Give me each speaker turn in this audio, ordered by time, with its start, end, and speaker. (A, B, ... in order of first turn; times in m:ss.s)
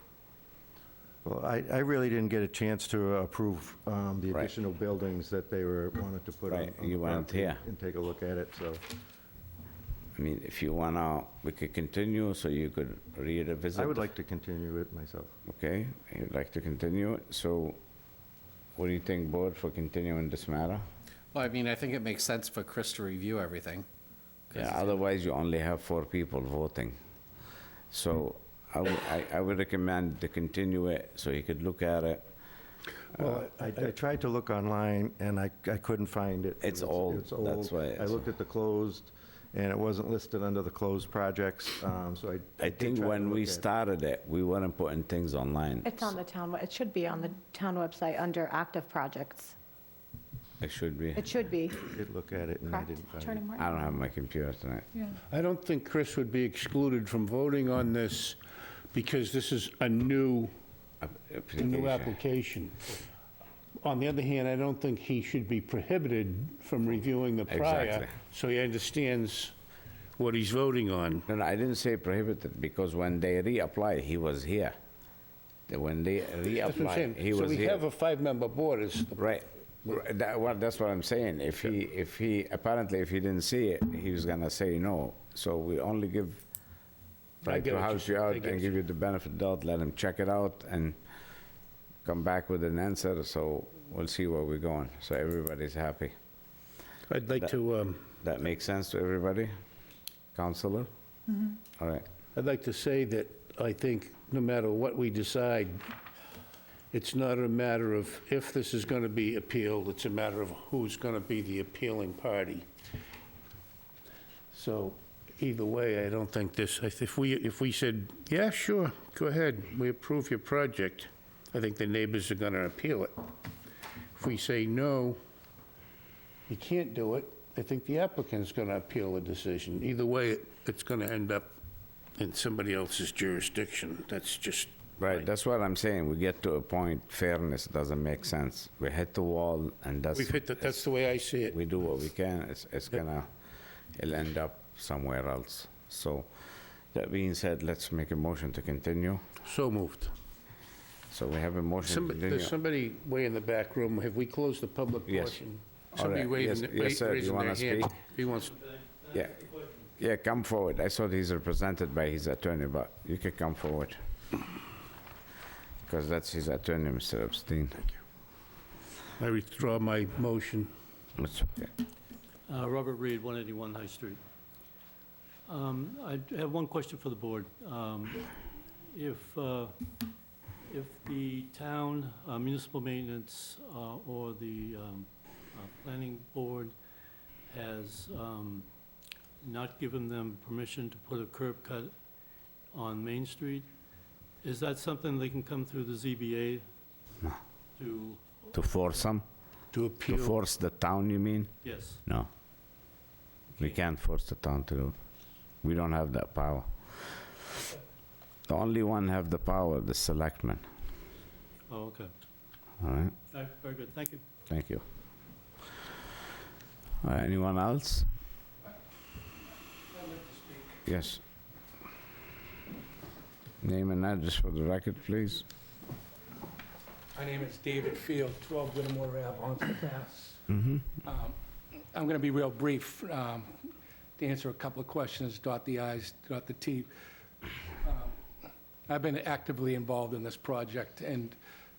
0:01.2-0:08.8 A
0:06.5-0:07.6 B
0:10.2-0:14.1 B
0:13.8-0:15.3 A
0:15.5-0:17.8 B
0:18.8-0:20.8 B
0:21.4-0:23.8 C
0:24.5-0:27.0 B
0:27.9-0:32.2 B
0:33.1-0:43.7 A
0:36.6-0:38.2 B
0:42.6-0:46.1 B
0:45.8-0:49.6 D
0:50.6-0:51.3 B
0:51.2-0:51.9 D
0:51.8-0:53.4 A
0:52.7-0:53.6 D
0:53.6-0:54.9 B
0:55.3-0:58.4 E
0:58.9-1:00.5 E
1:01.0-1:02.1 B
1:01.6-1:02.9 E
1:03.8-1:09.5 E
1:07.5-1:08.1 B
1:10.2-1:11.3 E
1:11.3-1:14.7 B
1:15.7-1:17.8 B
1:16.6-1:20.0 E
1:19.2-1:26.4 B
1:27.4-1:28.8 E
1:27.4-1:31.0 B
1:32.0-1:36.1 B
1:37.1-1:38.0 E
1:38.2-1:39.5 B
1:40.3-1:40.9 B
1:41.8-1:42.1 B
1:42.4-1:45.8 E
1:46.9-1:52.7 E
1:54.5-2:03.2 E
2:04.2-2:05.2 E
2:06.5-2:11.5 E
2:12.2-2:15.3 E
2:15.0-2:20.8 B
2:20.1-2:21.6 E
2:21.5-2:23.3 B
2:23.9-2:26.3 B
2:26.9-2:29.2 B
2:29.4-2:30.1 E
2:31.1-2:32.5 B
2:31.8-2:38.5 E
2:35.1-2:35.4 B
2:36.0-2:37.9 B
2:38.2-2:39.9 F
2:40.0-2:44.0 B
2:45.9-2:47.9 B
2:49.2-2:50.7 E
2:51.2-2:51.7 B
2:52.5-2:54.2 F
2:55.5-2:59.8 F
3:00.7-3:06.7 F
3:07.5-3:08.7 F
3:09.4-3:11.9 F
3:12.7-3:13.7 F
3:14.4-3:16.6 F
3:17.8-3:18.4 F
3:18.5-3:19.2 B
3:19.7-3:20.4 E
3:20.1-3:22.3 B
3:21.6-3:22.0 F
3:23.6-3:25.0 B
3:25.6-3:27.3 B
3:28.5-3:30.6 B
3:31.7-3:32.1 F
3:32.8-3:33.2 B
3:33.3-3:34.2 F
3:34.5-3:34.8 B
3:37.0-3:38.1 B
3:39.9-3:40.8 G
3:40.9-3:41.2 B
3:43.6-3:45.4 B
3:47.2-3:50.4 G
3:51.0-3:51.3 G
3:52.0-3:53.5 G
3:54.2-3:56.9 G
3:57.8-3:58.1 G
3:58.9-4:01.4 G